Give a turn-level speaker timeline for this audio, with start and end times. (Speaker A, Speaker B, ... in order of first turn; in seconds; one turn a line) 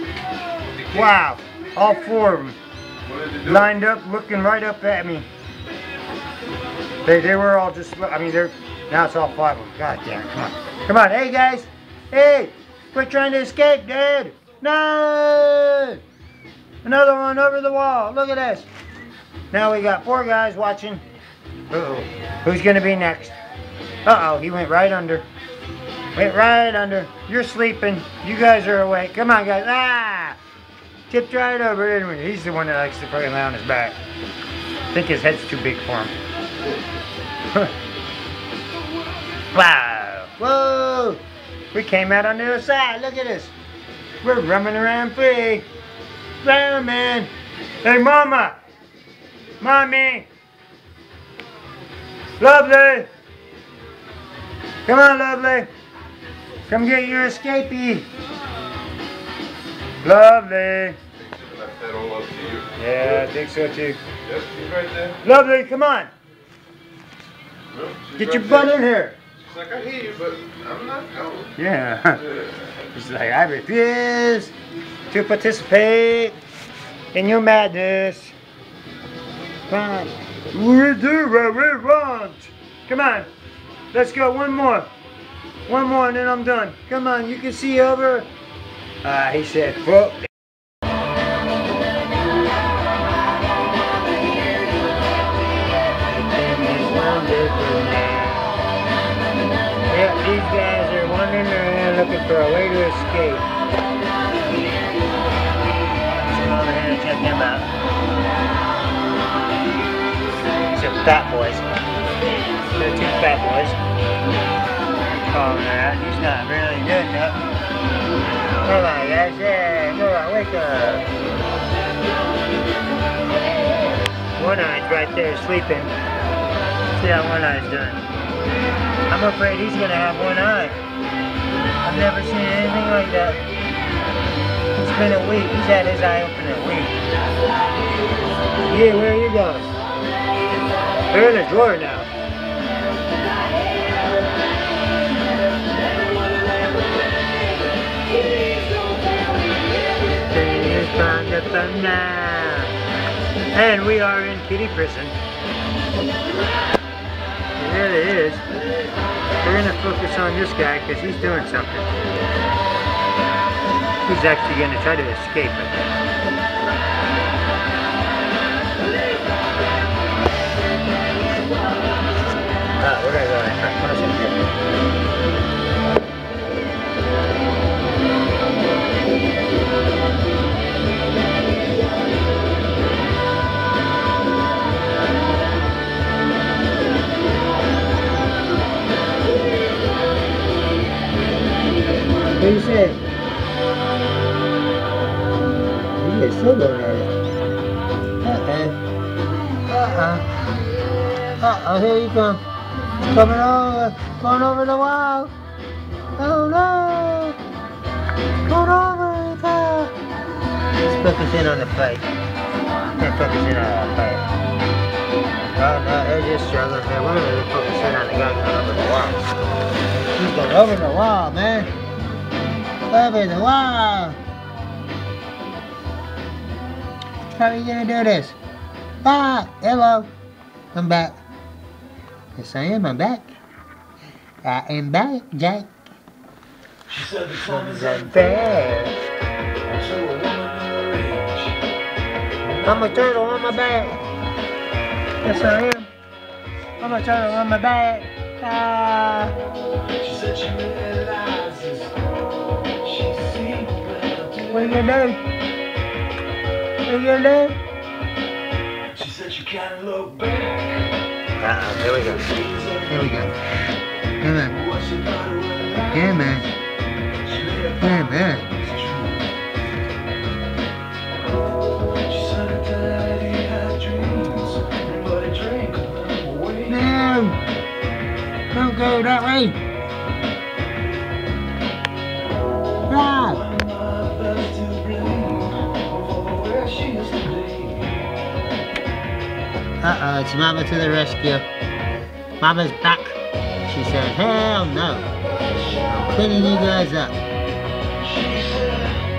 Speaker A: 0.8-2.6
Speaker B: 3.1-3.4
Speaker A: 3.4-5.2
Speaker A: 7.0-16.0
Speaker A: 16.8-18.7
Speaker A: 19.5-21.0
Speaker A: 21.7-23.4
Speaker A: 24.0-25.2
Speaker A: 26.1-30.4
Speaker A: 31.1-34.0
Speaker A: 34.9-36.1
Speaker A: 39.5-41.2
Speaker A: 41.7-43.5
Speaker A: 44.2-45.6
Speaker A: 46.4-47.3
Speaker A: 47.8-48.5
Speaker A: 49.6-50.3
Speaker A: 52.4-53.1
Speaker A: 54.9-55.7
Speaker A: 56.7-58.1
Speaker A: 60.0-61.0
Speaker B: 61.4-62.7
Speaker A: 62.8-64.0
Speaker B: 64.3-65.2
Speaker A: 65.2-66.1
Speaker B: 67.7-68.5
Speaker A: 68.2-69.2
Speaker B: 69.5-71.5
Speaker A: 71.6-72.2
Speaker A: 72.8-74.5
Speaker A: 75.1-76.4
Speaker A: 77.1-78.3
Speaker A: 79.7-83.3
Speaker A: 83.9-84.9
Speaker A: 85.7-88.3
Speaker A: 89.0-90.3
Speaker A: 96.1-98.5
Speaker A: 99.9-103.5
Speaker A: 106.0-107.7
Speaker A: 110.7-111.6
Speaker A: 112.7-113.8
Speaker A: 115.2-117.4
Speaker A: 118.6-121.0
Speaker A: 124.3-125.9
Speaker A: 126.9-128.0
Speaker A: 129.1-130.8
Speaker A: 131.8-133.4
Speaker A: 134.7-137.0
Speaker A: 138.6-139.7
Speaker A: 141.1-142.1
Speaker C: 146.3-146.8
Speaker C: 148.5-149.0
Speaker A: 150.1-152.7
Speaker A: 153.5-155.1
Speaker A: 157.6-158.4
Speaker A: 159.4-161.9
Speaker A: 164.0-165.9
Speaker A: 172.8-174.5
Speaker A: 192.3-193.0
Speaker A: 195.9-197.1
Speaker A: 198.2-198.8
Speaker A: 199.6-200.3
Speaker A: 201.4-202.4
Speaker A: 203.0-205.3
Speaker A: 206.2-207.3
Speaker A: 208.4-209.9
Speaker A: 210.8-212.1
Speaker A: 213.0-214.3
Speaker A: 215.6-219.2
Speaker A: 220.1-221.7
Speaker A: 222.9-224.2
Speaker A: 227.3-228.3
Speaker A: 229.0-230.1
Speaker A: 230.7-231.2
Speaker A: 232.3-233.3
Speaker A: 234.4-235.7
Speaker C: 236.9-238.5
Speaker A: 237.5-238.9
Speaker C: 239.7-241.6
Speaker C: 242.4-243.7
Speaker A: 242.6-244.0
Speaker A: 245.2-245.9
Speaker A: 246.8-249.3
Speaker C: 250.0-251.9
Speaker C: 252.8-254.9
Speaker A: 254.5-255.2
Speaker A: 256.8-257.6
Speaker C: 258.9-260.8
Speaker A: 261.4-262.2
Speaker C: 262.0-263.3
Speaker A: 262.9-263.3
Speaker A: 264.2-264.5
Speaker C: 264.5-266.3
Speaker A: 265.9-266.5
Speaker C: 267.2-269.2
Speaker A: 267.8-268.5
Speaker C: 272.0-276.9
Speaker A: 276.7-277.4
Speaker A: 278.5-279.6
Speaker A: 282.9-283.4
Speaker C: 283.2-288.1
Speaker A: 289.8-291.4
Speaker A: 292.4-295.1
Speaker A: 295.9-297.1
Speaker C: 298.0-298.9